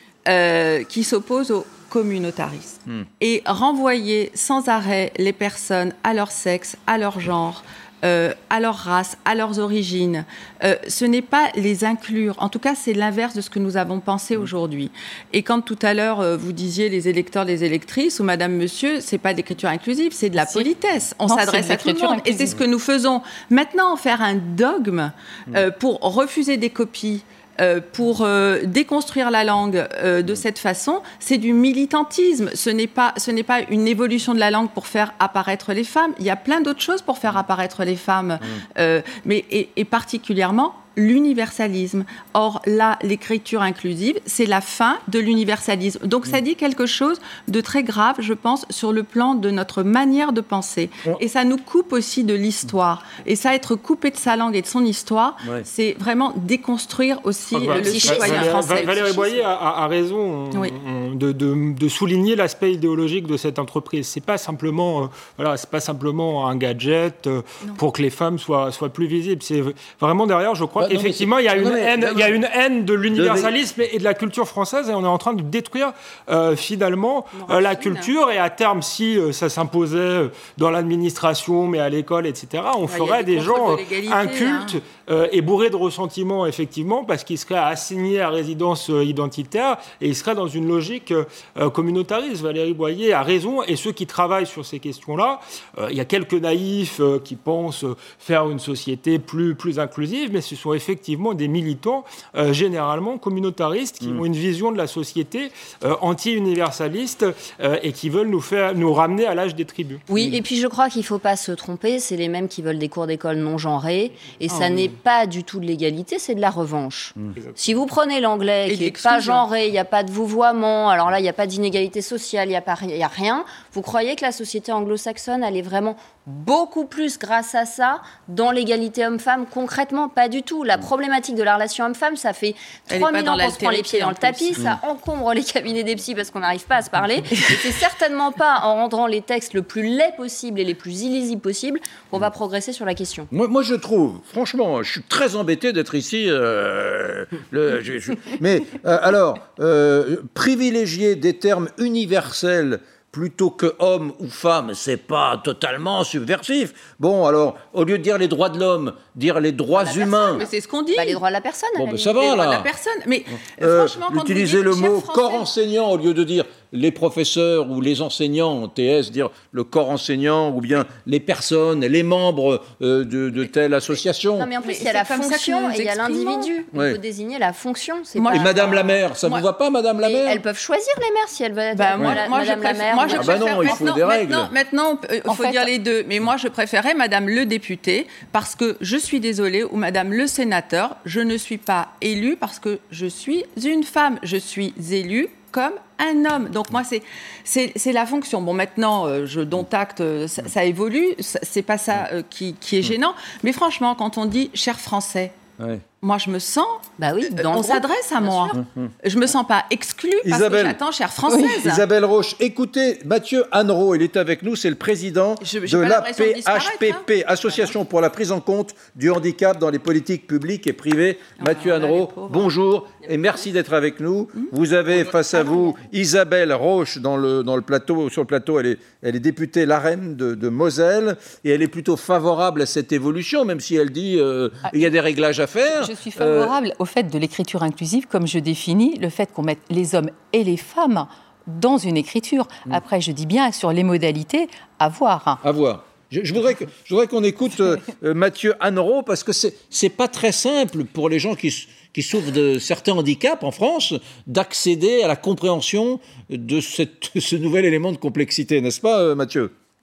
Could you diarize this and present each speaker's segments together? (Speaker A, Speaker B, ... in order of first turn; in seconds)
Speaker A: 0.3-59.4, 77.4-78.1, 82.9-84.8, 114.5-114.9, 118.7-119.5, 132.9-134.7, 137.3-137.8, 160.3-161.2, 162.1-165.5, 174.6-176.5, 178.2-179.4, 181.8-205.4, 206.0-211.8, 215.4-217.7, 221.4-222.5, 224.4-225.8
Speaker B: 20.4-20.7, 21.3-22.6, 185.3-185.7, 235.7-245.4
Speaker C: 57.5-110.0
Speaker D: 70.8-72.4, 73.1-73.5, 110.2-110.4, 143.3-160.5, 161.8-162.7, 163.4-174.5, 176.7-177.0, 178.3-180.4, 183.2-184.5, 205.6-205.8, 208.5-208.9, 210.2-210.8, 211.6-236.6, 245.4-259.5
Speaker E: 110.1-143.3, 159.8-162.1, 174.3-178.8, 180.0-183.9, 207.0-208.6